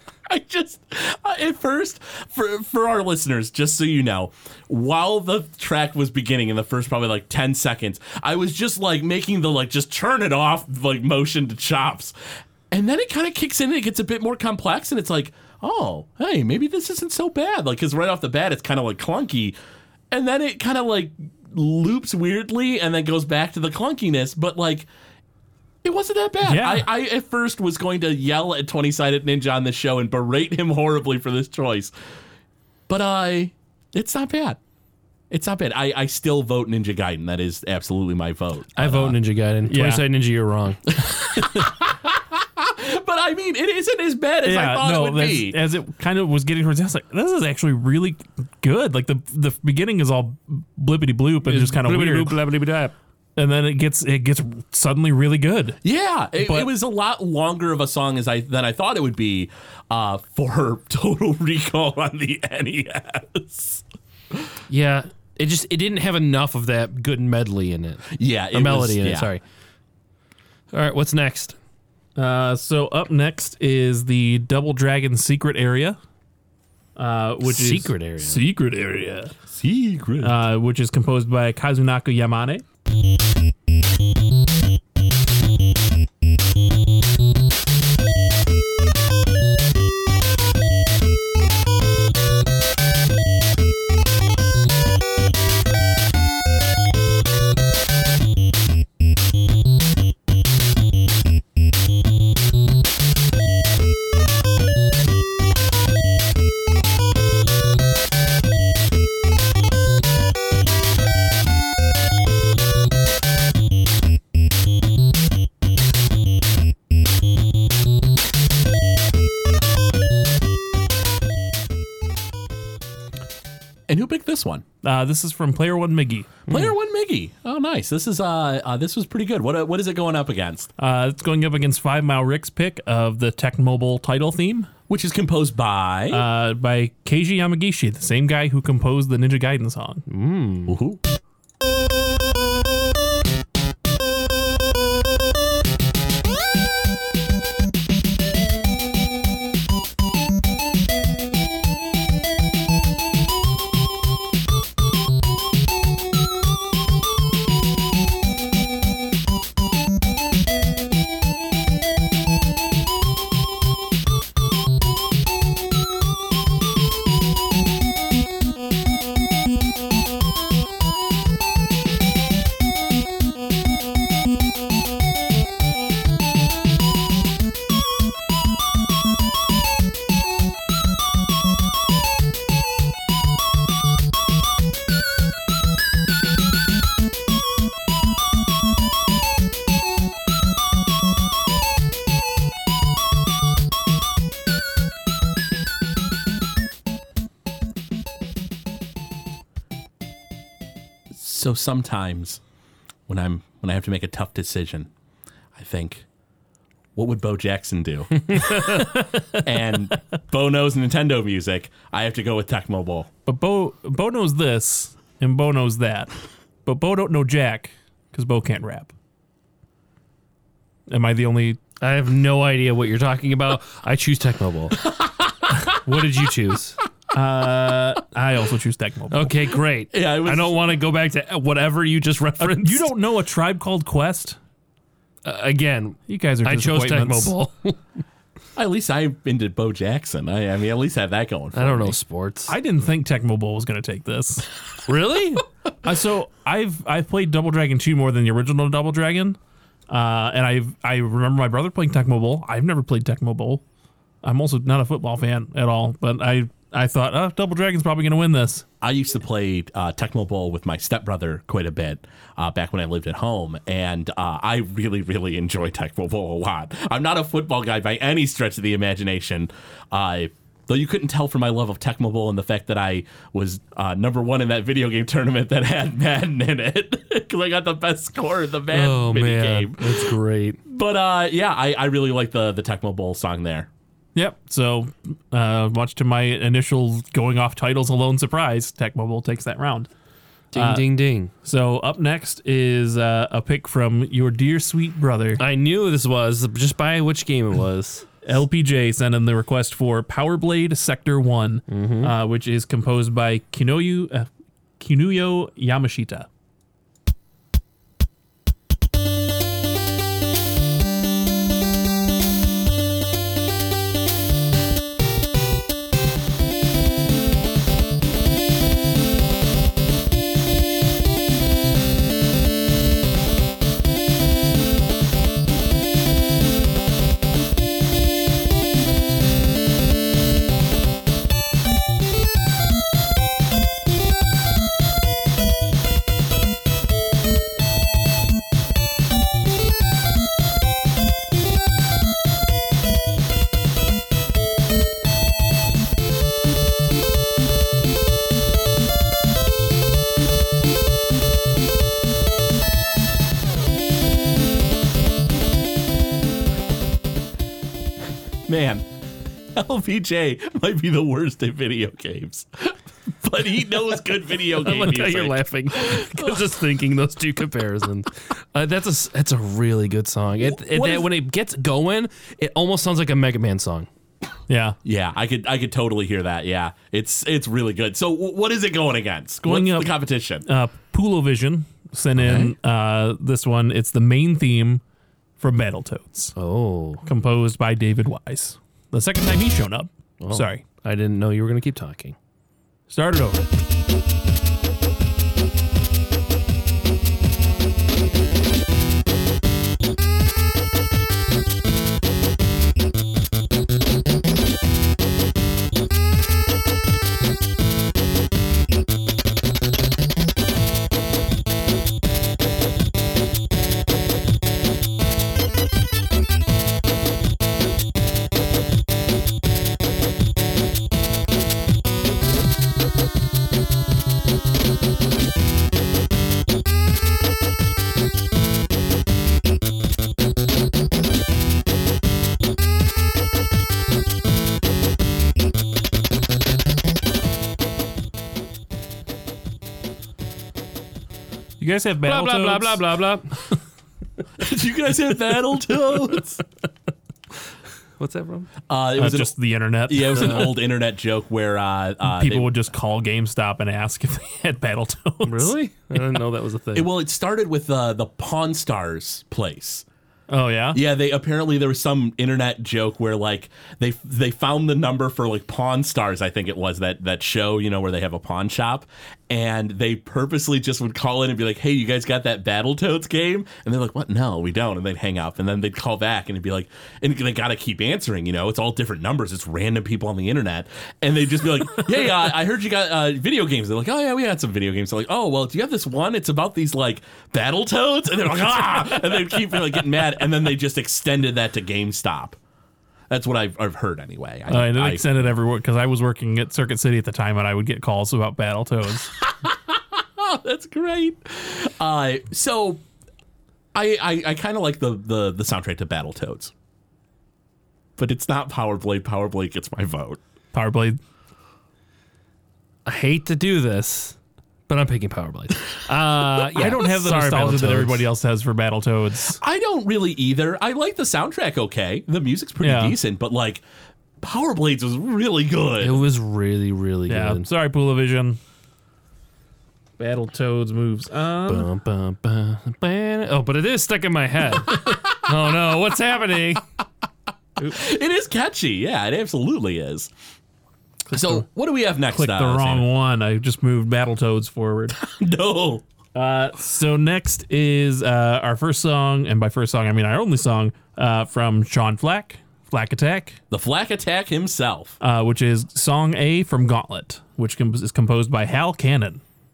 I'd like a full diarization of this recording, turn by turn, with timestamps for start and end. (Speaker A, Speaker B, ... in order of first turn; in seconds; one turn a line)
Speaker A: 0.3-12.1
Speaker A: 12.7-19.6
Speaker A: 20.1-24.9
Speaker A: 25.8-31.9
Speaker B: 26.4-26.9
Speaker A: 32.9-34.6
Speaker A: 35.3-39.2
Speaker C: 38.8-40.8
Speaker B: 39.7-40.0
Speaker A: 40.9-45.6
Speaker B: 44.4-52.4
Speaker C: 51.4-52.9
Speaker B: 53.4-55.8
Speaker A: 55.8-64.5
Speaker B: 56.4-56.7
Speaker C: 64.7-69.4
Speaker A: 68.1-69.3
Speaker C: 70.7-71.6
Speaker B: 72.2-76.0
Speaker B: 77.0-79.3
Speaker C: 77.4-78.4
Speaker A: 79.5-80.3
Speaker B: 80.2-82.6
Speaker A: 123.9-124.6
Speaker B: 124.8-126.4
Speaker A: 126.5-130.7
Speaker B: 130.8-134.7
Speaker A: 134.9-136.2
Speaker B: 136.1-140.0
Speaker C: 140.1-140.8
Speaker A: 140.7-141.0
Speaker A: 201.1-202.4
Speaker A: 203.1-204.9
Speaker A: 205.6-206.0
Speaker A: 206.9-208.8
Speaker C: 208.3-208.8
Speaker A: 209.4-213.1
Speaker B: 213.2-216.1
Speaker B: 216.6-218.9
Speaker B: 220.9-221.6
Speaker C: 221.8-224.8
Speaker A: 224.8-225.6
Speaker C: 225.8-226.8
Speaker B: 227.1-229.4
Speaker C: 229.1-232.9
Speaker A: 229.9-230.6
Speaker B: 232.4-234.4
Speaker C: 235.2-237.8
Speaker B: 236.1-237.3
Speaker A: 238.6-242.0
Speaker C: 241.5-242.5
Speaker B: 242.5-244.5
Speaker C: 244.9-245.4
Speaker B: 245.8-249.4
Speaker B: 249.9-253.6
Speaker B: 254.2-258.6
Speaker A: 258.8-280.1
Speaker C: 278.7-280.6
Speaker A: 280.7-283.7
Speaker B: 284.1-289.9
Speaker B: 290.5-290.9
Speaker C: 290.5-291.3
Speaker B: 291.4-295.4
Speaker C: 295.4-298.1
Speaker B: 298.2-304.3
Speaker C: 301.7-302.1
Speaker B: 304.8-306.3
Speaker A: 358.4-358.9
Speaker A: 359.5-366.5
Speaker C: 364.6-373.9
Speaker A: 370.4-371.1
Speaker B: 374.5-374.8
Speaker A: 374.8-380.4
Speaker B: 379.4-384.8
Speaker A: 382.1-382.5
Speaker B: 385.4-386.3
Speaker C: 386.4-387.0
Speaker B: 387.0-390.6
Speaker C: 390.2-392.1
Speaker B: 392.9-393.5
Speaker B: 441.6-442.9
Speaker C: 442.0-443.3
Speaker A: 444.4-446.4
Speaker C: 448.0-448.5
Speaker A: 448.7-449.3
Speaker B: 449.0-450.6
Speaker A: 449.9-452.5
Speaker B: 452.0-455.5
Speaker C: 455.2-456.9
Speaker A: 456.7-459.8
Speaker B: 460.3-460.8
Speaker A: 460.7-492.4
Speaker A: 493.1-495.3
Speaker B: 494.5-499.1
Speaker A: 499.2-502.8
Speaker A: 503.7-506.5
Speaker A: 508.0-510.2
Speaker B: 510.5-511.0
Speaker C: 512.9-514.1
Speaker C: 514.7-518.1
Speaker B: 516.5-519.4
Speaker A: 519.4-523.6
Speaker B: 522.6-523.0
Speaker A: 524.2-526.0
Speaker C: 525.8-527.5
Speaker B: 527.1-528.4
Speaker B: 530.0-531.7
Speaker C: 531.5-536.6
Speaker A: 537.6-540.1
Speaker B: 541.1-541.4
Speaker A: 541.1-542.9
Speaker B: 542.1-545.0
Speaker A: 544.9-545.8
Speaker B: 546.1-553.4
Speaker A: 553.5-555.0
Speaker B: 555.0-559.2